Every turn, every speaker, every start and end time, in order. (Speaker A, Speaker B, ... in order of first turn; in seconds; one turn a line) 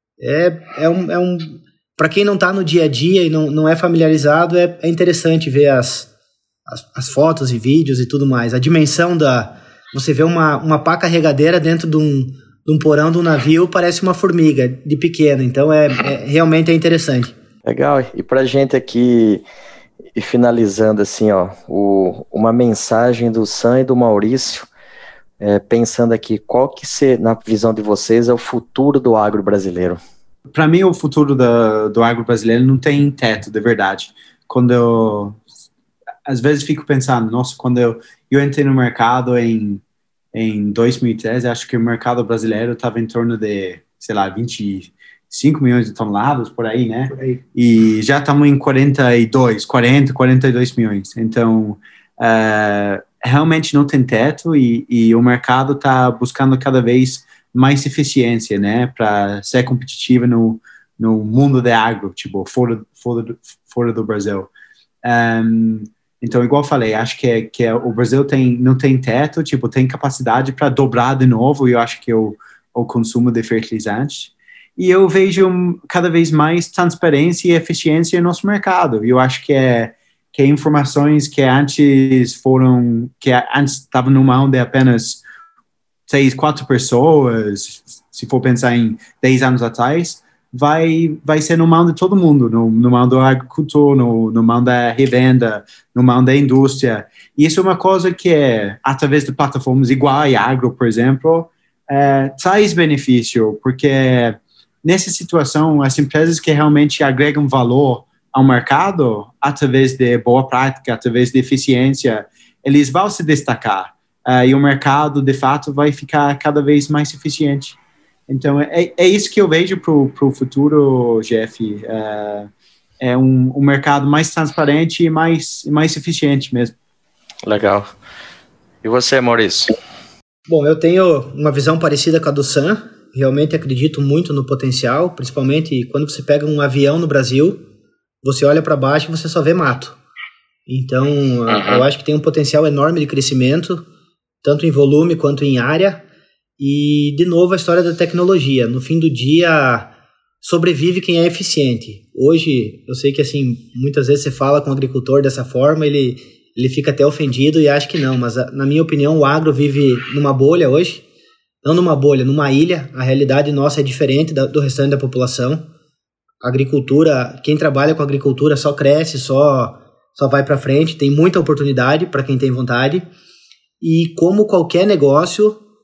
Speaker A: 0.2-6.1
Speaker A: 6.7-17.3
Speaker B: 17.6-19.4
Speaker B: 20.1-24.7
Speaker B: 25.4-30.0
Speaker C: 30.5-35.4
Speaker C: 36.2-39.8
Speaker C: 40.3-64.5
Speaker C: 65.0-85.2
Speaker C: 86.1-122.5
Speaker C: 123.0-126.7
Speaker B: 127.5-127.9
Speaker B: 128.8-129.7
Speaker A: 130.5-137.6
Speaker A: 138.2-140.0
Speaker A: 140.7-143.8
Speaker B: 141.5-141.8
Speaker A: 144.4-146.0
Speaker A: 146.6-161.0
Speaker A: 161.6-165.6
Speaker A: 166.4-173.1
Speaker A: 173.8-175.6